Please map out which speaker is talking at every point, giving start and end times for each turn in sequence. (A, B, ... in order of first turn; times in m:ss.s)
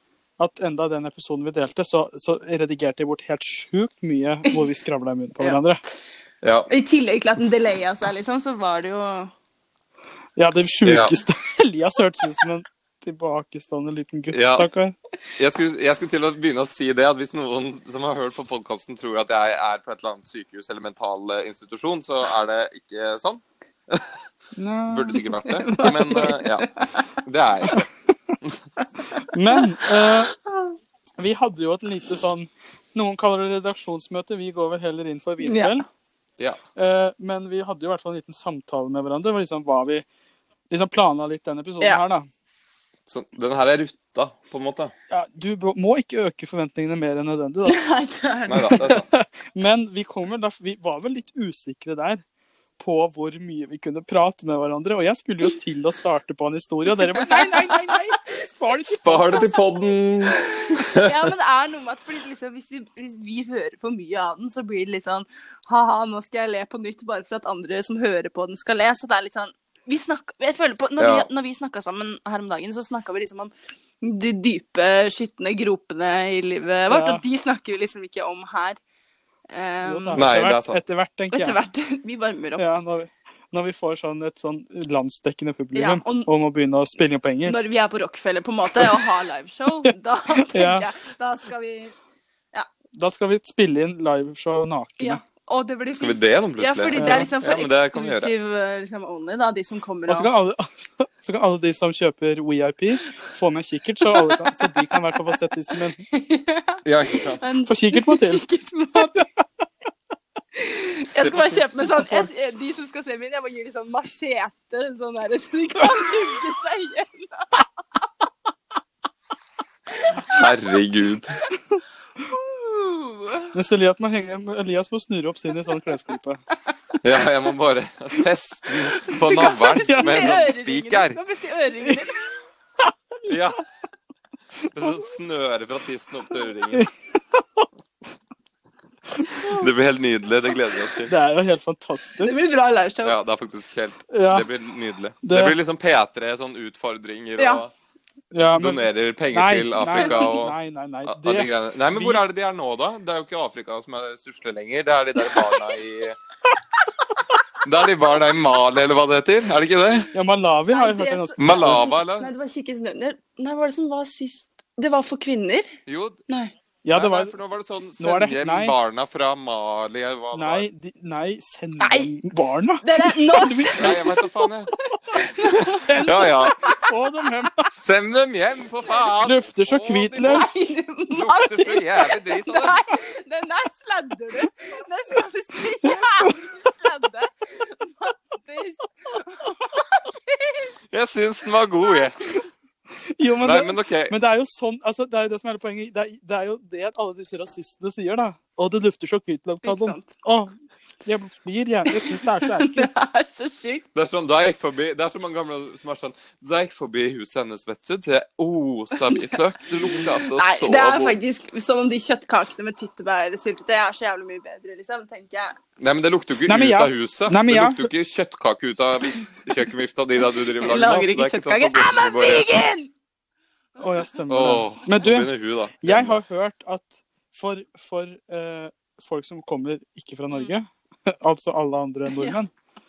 0:00.4-0:05.8 A
0:06.4-0:06.7 B
0:06.7-0:09.3 C
0:10.4-0:15.0 A
0:10.8-0:11.1 B
0:14.3-0:14.7 B
0:15.4-0:24.2 B
0:24.6-0:25.2 A
0:24.9-0:26.7 B
0:25.4-0:27.1 C
0:27.2-0:27.9 B
0:29.0-0:30.8 C
0:29.2-0:30.3 A
0:31.2-0:35.9 A
0:35.4-0:35.8 C
0:36.8-0:40.0 A
0:40.7-0:42.3 A
0:43.1-0:44.9 B
0:45.1-0:47.8 A
0:47.7-0:48.8 C
0:48.5-0:49.1 B
0:48.7-0:52.2 A
0:52.8-0:59.4 A
0:56.9-0:58.4 C
0:58.9-1:18.8 C
0:59.0-1:01.2 B
1:11.0-1:11.3 B
1:16.9-1:17.2 A
1:19.5-1:20.3 C
1:19.9-1:21.6 A
1:20.1-1:20.8 B
1:21.3-1:22.6 C
1:22.6-1:27.6 A
1:25.8-1:26.3 C
1:27.4-1:32.0 C
1:29.9-1:30.9 A
1:33.0-1:35.2 A
1:35.0-1:40.3 C
1:36.0-1:38.3 B
1:37.0-1:37.3 A
1:40.1-1:46.0 A
1:44.2-1:45.4 C
1:46.1-1:49.3 C
1:46.8-1:47.4 B
1:47.7-1:48.4 A
1:50.6-1:57.5 C
1:51.1-1:51.8 B
1:59.9-2:00.5 C
2:00.3-2:01.4 B
2:02.2-2:03.5 C
2:03.5-2:06.4 A
2:07.0-2:11.2 B
2:08.9-2:12.2 C
2:09.9-2:10.4 A
2:13.3-2:13.6 B
2:14.7-2:16.9 B
2:16.7-2:17.7 A
2:19.2-2:19.7 A
2:19.4-2:21.1 B
2:21.1-2:22.4 A
2:22.2-2:23.2 C
2:23.0-2:27.7 B
2:24.1-2:24.5 A
2:25.2-2:25.6 A
2:28.3-2:32.2 A
2:28.5-2:36.2 B
2:35.3-2:35.7 C
2:37.6-2:40.1 B
2:40.1-2:41.8 A
2:40.7-2:45.7 C
2:41.4-2:42.3 B
2:45.9-2:46.2 B
2:46.3-2:46.5 C
2:46.8-2:47.4 A
2:46.9-2:50.7 B
2:48.0-2:48.8 A
2:50.3-2:54.0 A
2:51.8-2:52.1 C
2:52.8-2:56.9 C
2:53.8-2:54.7 B
2:55.1-2:57.7 A
2:56.0-2:56.6 B
2:57.7-3:00.5 B
2:59.2-3:00.5 A
3:00.2-3:10.7 C
3:01.1-3:02.8 B
3:06.2-3:06.6 A
3:10.9-3:12.2 B
3:11.8-3:12.1 C
3:13.1-3:22.9 A
3:13.4-3:14.1 B
3:19.6-3:20.1 C
3:21.9-3:23.8 C
3:24.0-3:31.2 B
3:29.0-3:29.4 C
3:30.1-3:35.6 C
3:35.8-3:42.5 B
3:36.5-3:37.9 A
3:40.6-3:42.9 C
3:43.8-3:52.5 A
3:44.3-3:46.2 B
3:52.1-3:52.4 C